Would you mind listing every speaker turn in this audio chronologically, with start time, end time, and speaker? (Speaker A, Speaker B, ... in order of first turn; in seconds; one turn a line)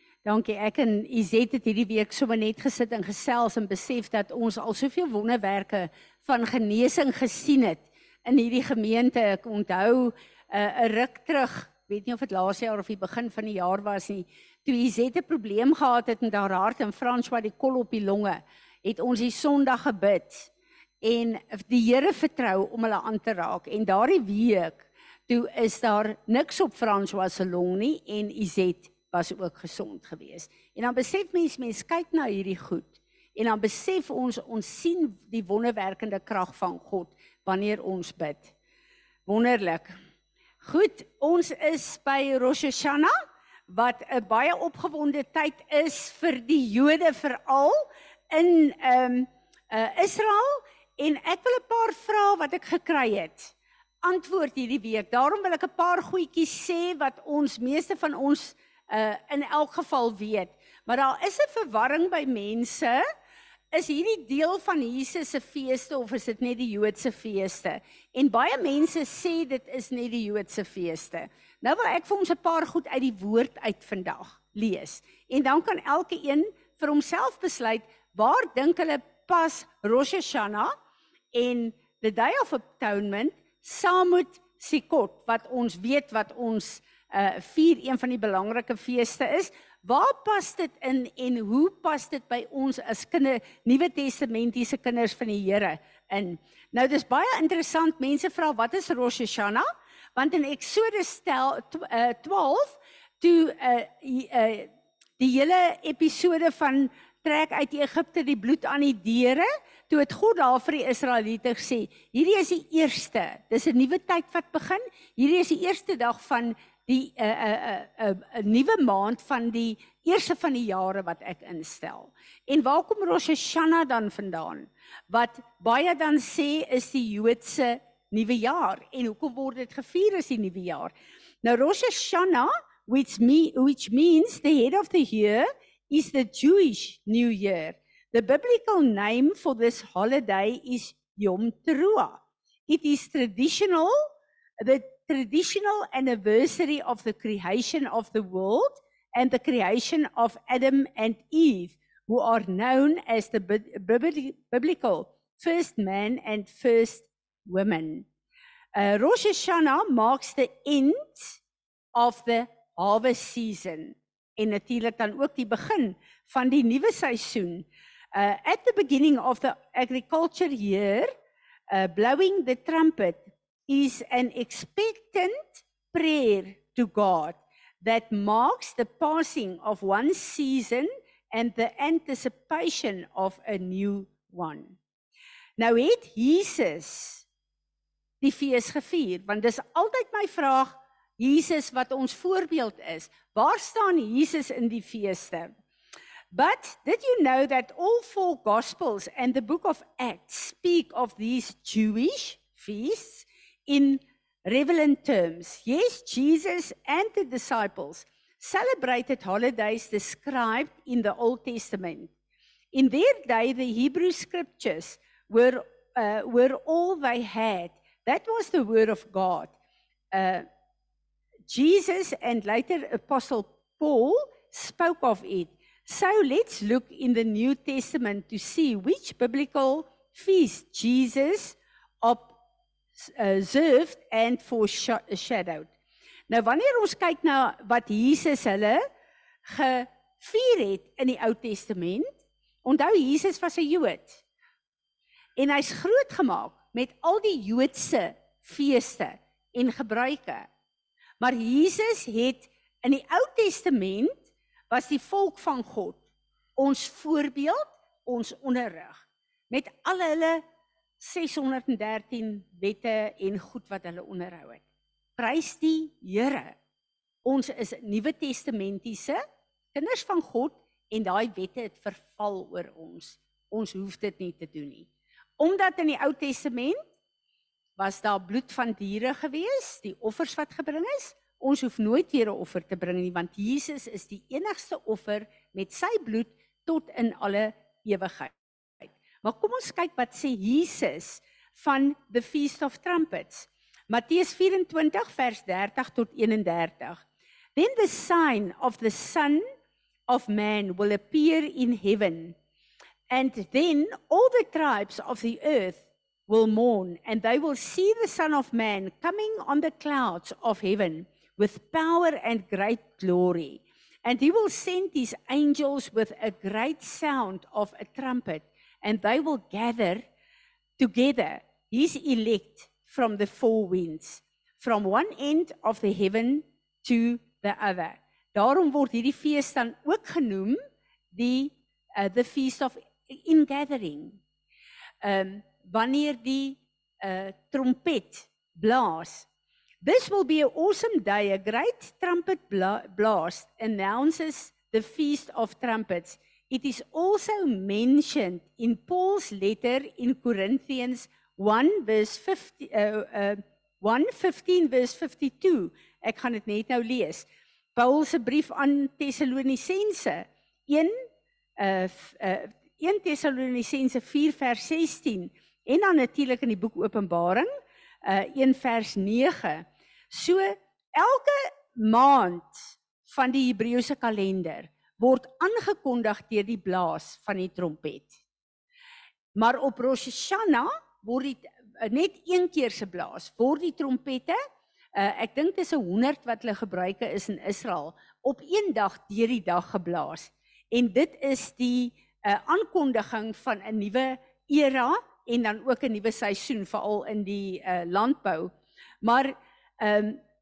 Speaker A: 0.2-20.5
Speaker A: 21.0-38.5
Speaker A: 39.2-39.9
Speaker A: 40.6-43.1
Speaker A: 43.7-63.0
Speaker A: 63.7-80.7
Speaker A: 81.3-143.9
Speaker A: 144.6-158.1
Speaker A: 158.7-161.4
Speaker A: 161.9-171.1
Speaker A: 171.7-184.8
Speaker A: 185.6-187.2
Speaker A: 188.2-195.5
Speaker A: 196.3-212.1
Speaker A: 212.7-219.5
Speaker A: 220.1-220.5
Speaker A: 221.5-232.4
Speaker A: 232.9-235.7
Speaker A: 236.3-238.8
Speaker A: 239.4-242.1
Speaker A: 242.6-244.2
Speaker A: 245.3-250.5
Speaker A: 251.2-256.0
Speaker A: 256.6-260.4
Speaker A: 261.0-264.6
Speaker A: 265.2-266.6
Speaker A: 267.2-269.2
Speaker A: 269.7-276.8
Speaker A: 277.8-297.0
Speaker A: 297.6-299.4
Speaker A: 300.1-302.4
Speaker A: 303.1-320.1
Speaker A: 320.8-330.6
Speaker A: 331.1-334.2
Speaker A: 335.0-339.3
Speaker A: 339.8-360.9
Speaker A: 361.6-367.5
Speaker A: 368.0-378.2
Speaker A: 379.4-384.4
Speaker A: 384.9-400.2